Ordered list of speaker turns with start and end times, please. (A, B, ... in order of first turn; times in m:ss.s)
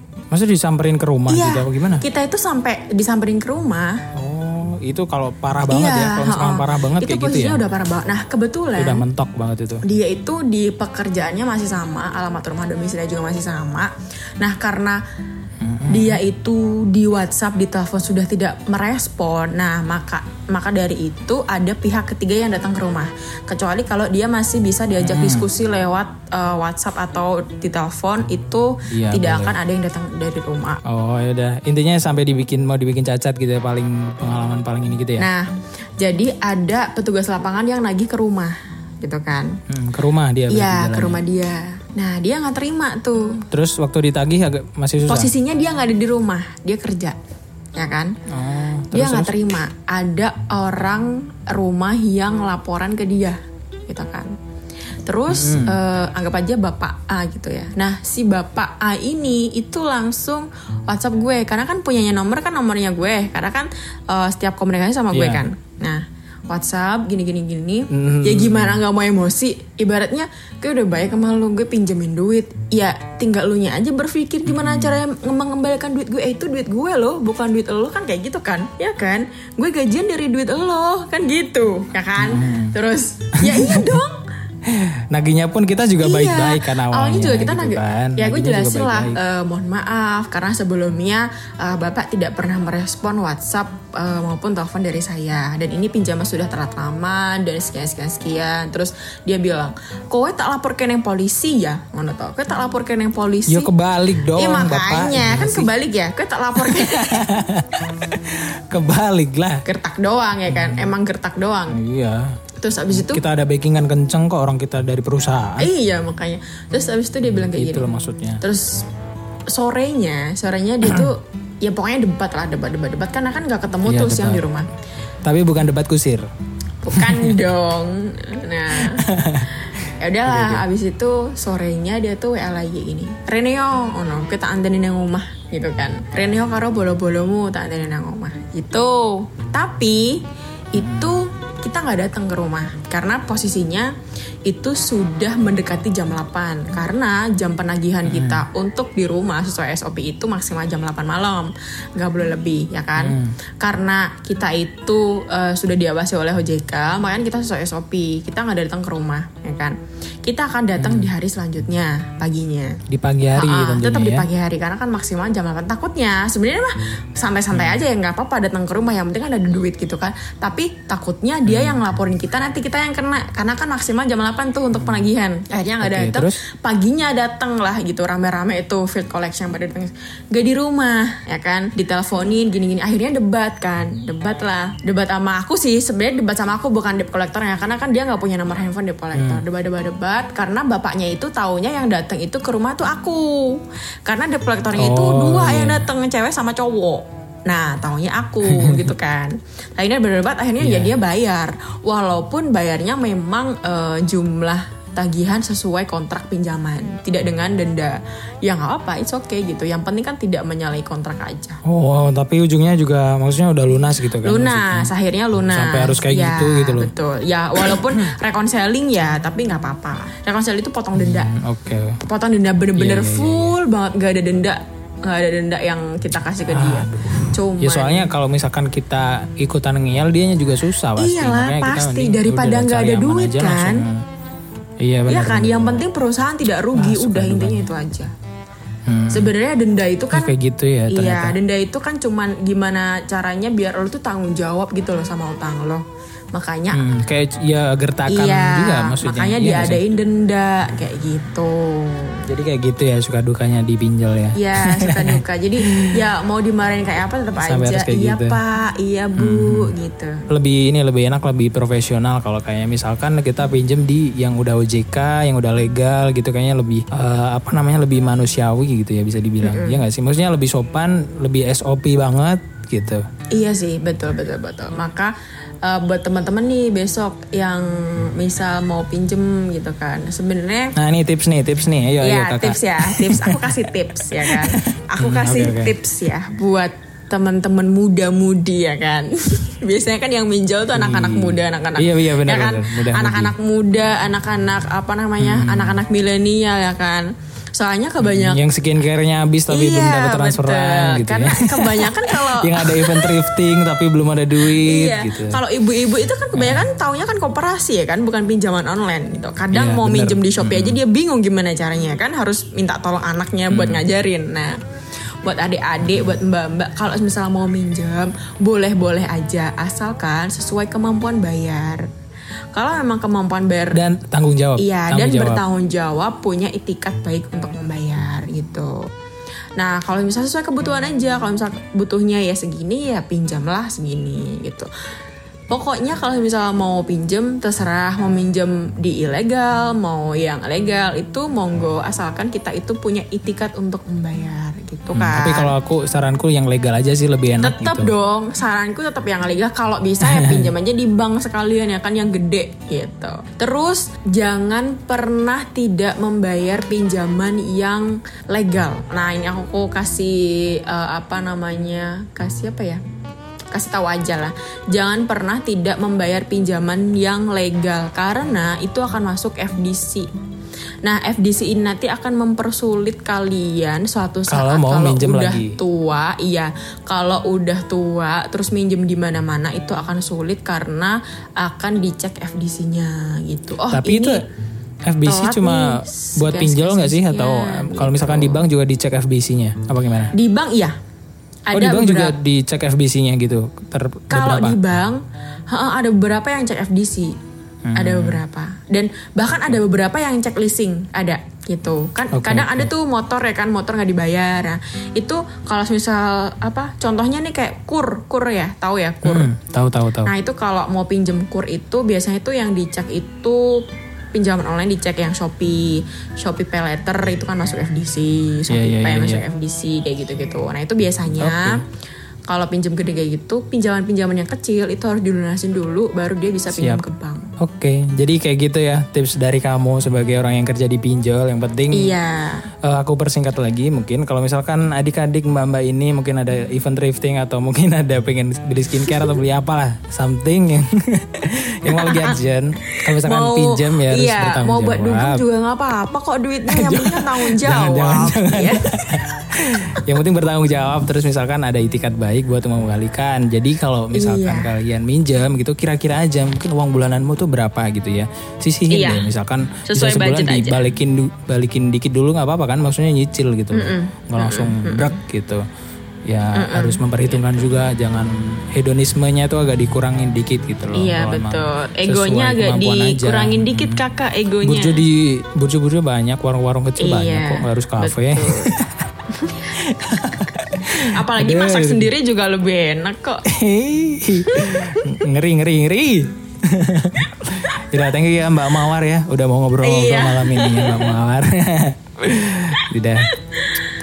0:00.3-0:02.0 A
0:01.3-0:04.0 B
0:04.1-0:07.6 A
0:05.7-0:09.0 B
0:08.8-0:09.8 A
0:09.8-0:15.0 B
0:15.6-0:16.2 A
0:15.8-0:30.8 B
0:25.0-0:25.5 A
0:28.9-0:29.6 A
0:30.8-0:35.3 A
0:35.2-0:39.6 B
0:39.7-0:41.2 A
0:40.5-0:43.5 B
0:43.5-0:45.3 A
0:45.1-0:47.2 B
0:47.8-0:48.2 B
0:48.3-0:49.4 A
0:48.9-0:54.4 B
0:55.0-1:24.2 B
0:55.3-0:55.8 A
1:05.1-1:05.4 A
1:07.9-1:08.8 A
1:14.5-1:15.0 A
1:22.2-1:22.8 A
1:23.4-1:23.9 A
1:24.6-1:29.2 A
1:26.0-1:43.7 B
1:43.5-1:45.7 A
1:44.3-1:47.3 B
1:46.6-1:49.6 A
1:49.6-1:51.8 B
1:50.5-1:50.8 A
1:51.7-1:52.4 A
1:52.6-1:53.2 B
1:52.9-1:55.7 A
1:55.6-1:57.9 B
1:57.5-1:58.4 A
1:58.4-1:58.8 B
1:59.5-2:04.7 B
2:00.8-2:01.1 A
2:03.8-2:04.4 A
2:05.2-2:06.3 A
2:06.8-2:09.1 B
2:06.9-2:07.4 A
2:08.7-2:09.7 A
2:10.0-2:23.9 B
2:10.3-2:10.6 A
2:20.8-2:21.2 A
2:24.5-2:42.8 B
2:28.0-2:28.4 A
2:33.0-2:33.4 A
2:40.8-2:41.1 A
2:42.9-2:44.3 A
2:43.4-3:31.6 B
2:47.5-2:47.8 A
2:51.5-2:51.8 A
2:55.8-2:56.4 A
3:09.1-3:09.4 A
3:14.8-3:15.8 A
3:18.4-3:18.9 A
3:20.6-3:20.9 A
3:31.6-3:34.9 A
3:34.2-3:41.3 B
3:35.5-3:36.9 A
3:37.6-3:37.9 A
3:41.0-3:42.0 A
3:42.0-3:48.1 B
3:42.8-3:43.6 A
3:46.5-3:54.0 A
3:51.0-3:53.9 B
3:54.8-3:55.8 A
3:55.1-3:58.1 B
3:56.7-3:57.6 A
3:58.9-3:59.3 A
3:59.1-4:00.3 B
4:00.1-4:01.4 A
4:00.9-4:06.8 B
4:06.7-4:09.9 A
4:08.1-4:12.2 B
4:12.3-4:16.0 A
4:14.4-4:20.2 B
4:17.4-4:18.4 A
4:19.2-4:19.7 A
4:20.3-4:33.0 A
4:29.4-4:29.8 B
4:33.3-4:40.8 B
4:40.8-4:45.8 A
4:42.0-4:58.4 B
4:50.7-4:53.3 A
4:55.2-4:55.8 A
4:58.0-5:05.4 A
4:59.5-5:03.3 B
5:04.4-5:14.6 B
5:06.4-5:06.7 A
5:09.5-5:10.8 A
5:13.5-5:13.9 A
5:15.2-5:21.9 B
5:22.5-5:23.8 B
5:23.7-5:25.4 A
5:24.6-5:28.9 B
5:29.6-5:34.7 B
5:35.5-5:45.5 B
5:44.9-5:47.9 A
5:47.4-6:02.8 B
5:50.0-5:50.5 A
6:03.5-6:10.1 B
6:10.8-6:24.2 B
6:14.3-6:15.6 A
6:23.7-6:24.2 A
6:24.9-6:30.1 A
6:25.0-6:28.4 B
6:30.1-6:30.8 B
6:31.5-6:32.2 B
6:31.5-6:34.6 A
6:34.1-6:37.2 B
6:37.6-6:38.2 A
6:37.8-6:49.3 B
6:42.1-6:42.7 A
6:49.0-6:50.1 A
6:50.0-6:53.6 B
6:54.1-7:01.6 B
6:58.5-6:59.2 A
7:01.2-7:01.6 A
7:02.3-7:07.3 B
7:06.5-7:06.8 A
7:07.4-7:12.0 A
7:11.7-7:12.5 B
7:12.6-7:25.2 A
7:18.8-7:19.1 B
7:21.7-7:22.2 B
7:22.7-7:29.0 B
7:26.5-7:45.4 A
7:33.9-7:34.5 B
7:38.7-7:39.1 B
7:39.7-7:40.6 B
7:43.5-7:45.0 B
7:46.1-7:53.8 A
7:46.4-7:47.5 B
7:50.8-7:54.8 B
7:54.4-7:58.9 A
7:56.8-7:58.6 B
7:59.1-8:03.2 B
7:59.5-8:01.9 A
8:03.3-8:13.1 A
8:04.2-8:05.0 B
8:09.6-8:11.0 B
8:13.3-8:13.6 B